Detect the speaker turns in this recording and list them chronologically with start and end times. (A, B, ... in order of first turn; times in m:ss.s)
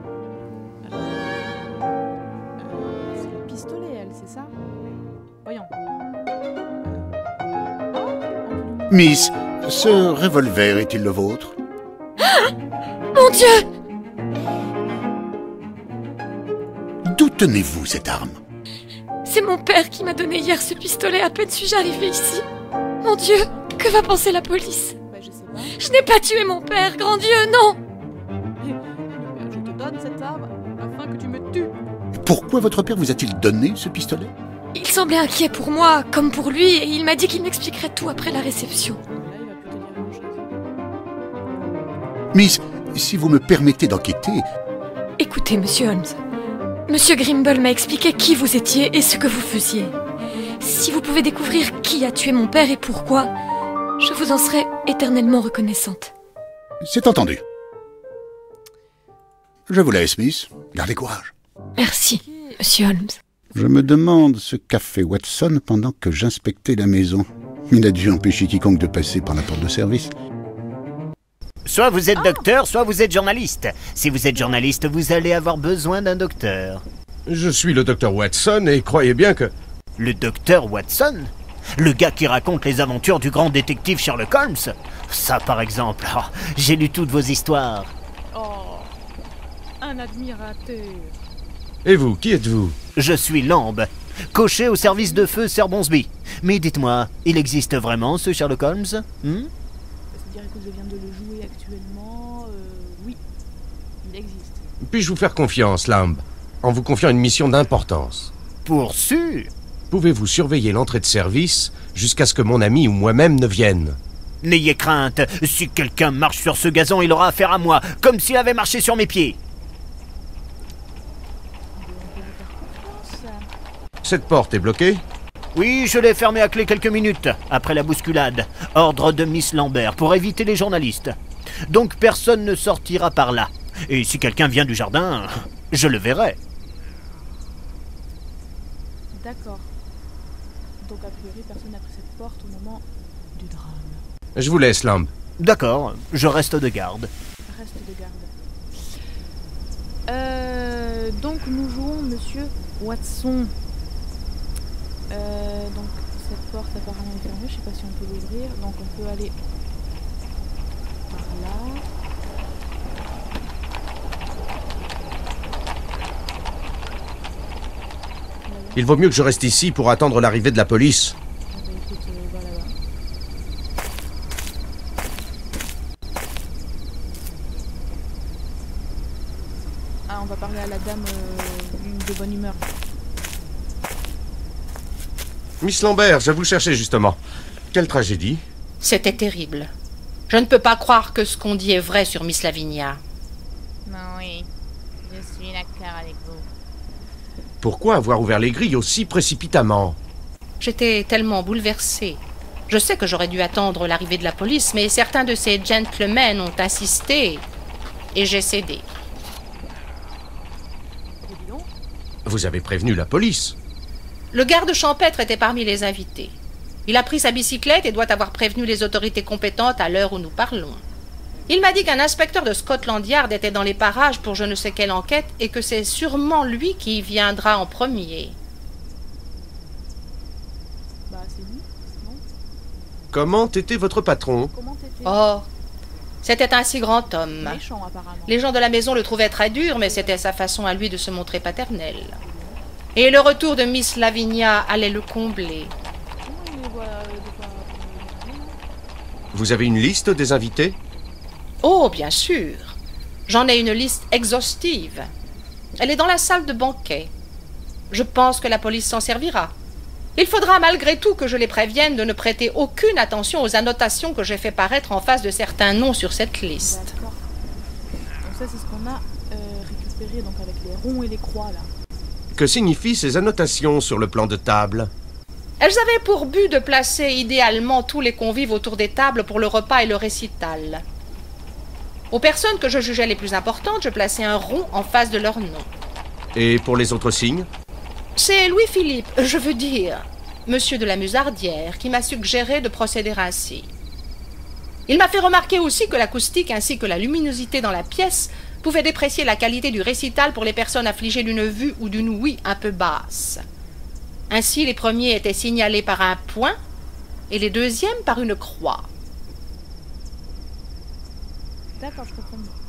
0:00.8-0:01.6 A
0:02.6-0:04.5 A
0:05.4-0:05.7 A
0:06.8-0:07.1 A
0:07.9-0:09.1 A
0:08.9-0:11.6 B
0:12.2-0:12.5 C
0:13.1-0:13.6 C
0:17.0-0:18.4 B
0:19.2-0:22.4 C
0:23.0-0:24.9 C
0:25.1-0:25.8 A
0:25.8-0:27.8 C
0:28.6-0:31.7 A
0:32.1-0:34.3 B
0:34.7-0:39.0 C
0:39.0-0:40.6 A
0:41.6-0:41.9 A
0:42.3-0:44.4 B
0:45.2-0:46.2 C
0:46.9-0:49.9 C
0:50.6-0:53.3 C
0:54.0-0:56.1 C
0:56.8-0:57.4 B
0:59.7-1:01.3 B
1:01.8-1:03.2 C
1:02.1-1:02.6 A
1:03.5-1:10.1 B
1:11.6-1:16.8 D
1:12.1-1:12.5 A
1:14.3-1:14.6 A
1:17.3-1:19.5 E
1:20.0-1:27.9 D
1:28.3-1:28.9 A
1:29.8-1:31.2 A
1:31.8-1:32.8 E
1:33.0-1:39.5 D
1:34.8-1:35.3 A
1:40.1-1:43.2 A
1:44.0-1:44.6 A
1:44.8-1:48.3 E
1:48.6-1:49.5 D
1:49.9-1:54.0 E
1:54.4-1:59.4 D
2:01.8-2:03.5 A
2:04.0-2:05.0 E
2:05.5-2:11.2 D
2:11.7-2:16.4 D
2:19.1-2:19.7 A
2:20.8-2:22.8 A
2:23.3-2:24.0 A
2:24.4-2:25.1 E
2:25.4-2:27.1 D
2:27.5-2:28.3 A
2:30.1-2:33.5 A
2:35.1-2:39.3 A
2:41.1-2:41.8 A
2:48.4-2:48.8 A
2:48.8-2:51.1 E
2:51.5-2:52.7 A
3:00.1-3:02.6 A
3:05.6-3:07.2 E
3:07.7-3:08.4 E
3:08.8-3:09.7 F
3:10.3-3:13.0 F
3:13.8-3:14.5 A
3:15.0-3:16.5 A
3:17.6-3:20.0 E
3:20.6-3:27.4 F
3:28.1-3:28.8 F
3:31.2-3:31.7 A
3:32.2-3:33.5 E
3:34.3-3:40.8 F
3:41.5-3:48.4 F
3:51.1-3:52.2 A
3:53.1-3:54.5 E
3:54.5-3:55.2 A
3:55.0-3:55.5 F
3:56.2-3:57.6 F
3:57.3-3:58.4 A
3:58.3-4:02.2 F
3:59.8-4:00.2 A
4:02.1-4:02.6 A
4:03.0-4:05.7 F
4:06.0-4:08.6 A
4:09.3-4:10.8 E
4:11.6-4:12.8 F
4:13.3-4:15.1 F
4:15.8-4:17.1 F
4:17.9-4:19.5 F
4:20.2-4:26.9 F
4:26.6-4:27.3 A
4:28.2-4:31.7 A
4:32.3-4:34.9 E
4:35.6-4:40.8 F
4:42.1-4:45.7 F
4:46.3-4:47.5 E
4:48.2-4:53.7 F
4:54.9-5:03.4 F
5:04.3-5:06.6 F
5:07.3-5:08.9 F
5:11.8-5:12.6 A